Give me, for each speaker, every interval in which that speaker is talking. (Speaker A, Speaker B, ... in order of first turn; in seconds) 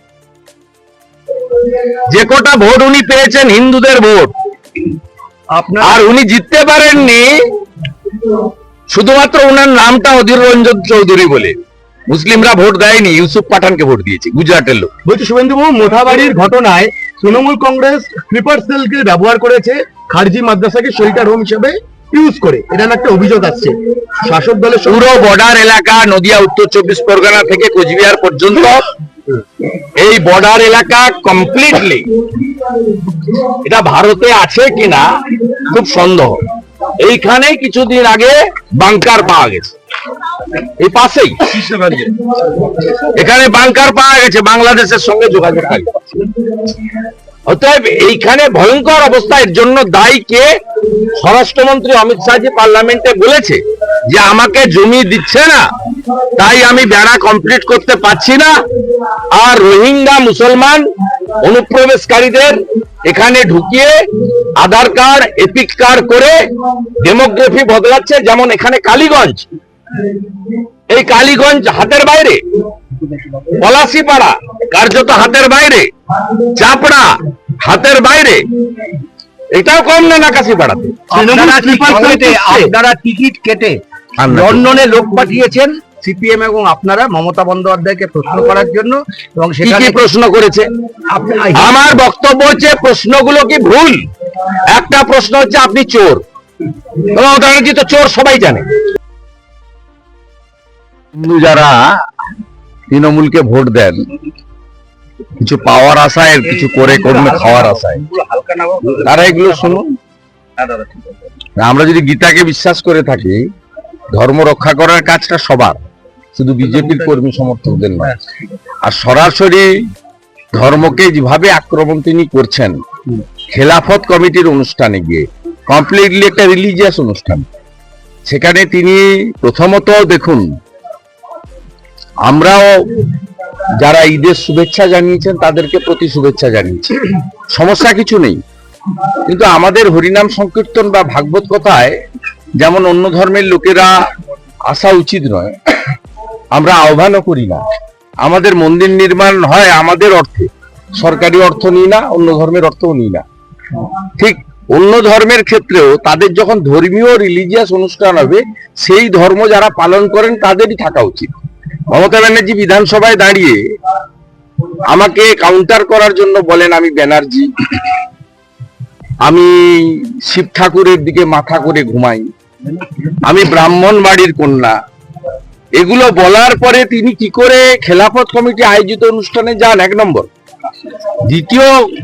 Speaker A: 1.7-4.3, 5.8-7.3, 8.9-11.6, 12.1-14.9, 24.9-28.8, 30.0-32.1, 33.2-36.4, 37.0-39.7, 40.5-42.1, 42.9-46.1, 47.5-55.7, 56.4-58.6, 59.3-60.9, 61.4-64.0, 64.6-69.5, 70.9-72.4, 73.6-78.4, 79.5-81.0, 84.2-84.7, 89.6-90.7, 91.5-94.0, 94.7-96.2, 96.9-98.7, 101.2-101.8, 102.9-104.0, 105.4-108.0, 109.0-109.9, 111.6-113.4, 114.1-115.8, 116.4-118.2, 118.8-119.7, 120.5-122.8, 123.5-127.5, 128.3-130.5, 132.2-133.1, 133.7-138.4, 139.2-142.0, 142.6-143.9, 144.7-145.5, 146.5-147.6, 148.2-153.2, 154.2-161.3, 161.9-163.6, 164.8-167.5, 169.2-172.3, 173.2-174.8, 175.8-180.3, 181.2-181.7
Speaker B: 5.5-6.0, 81.1-90.0, 91.1-91.8, 106.5-109.8, 110.6-111.1, 116.7-117.1
Speaker C: 15.1-25.1, 81.1-82.7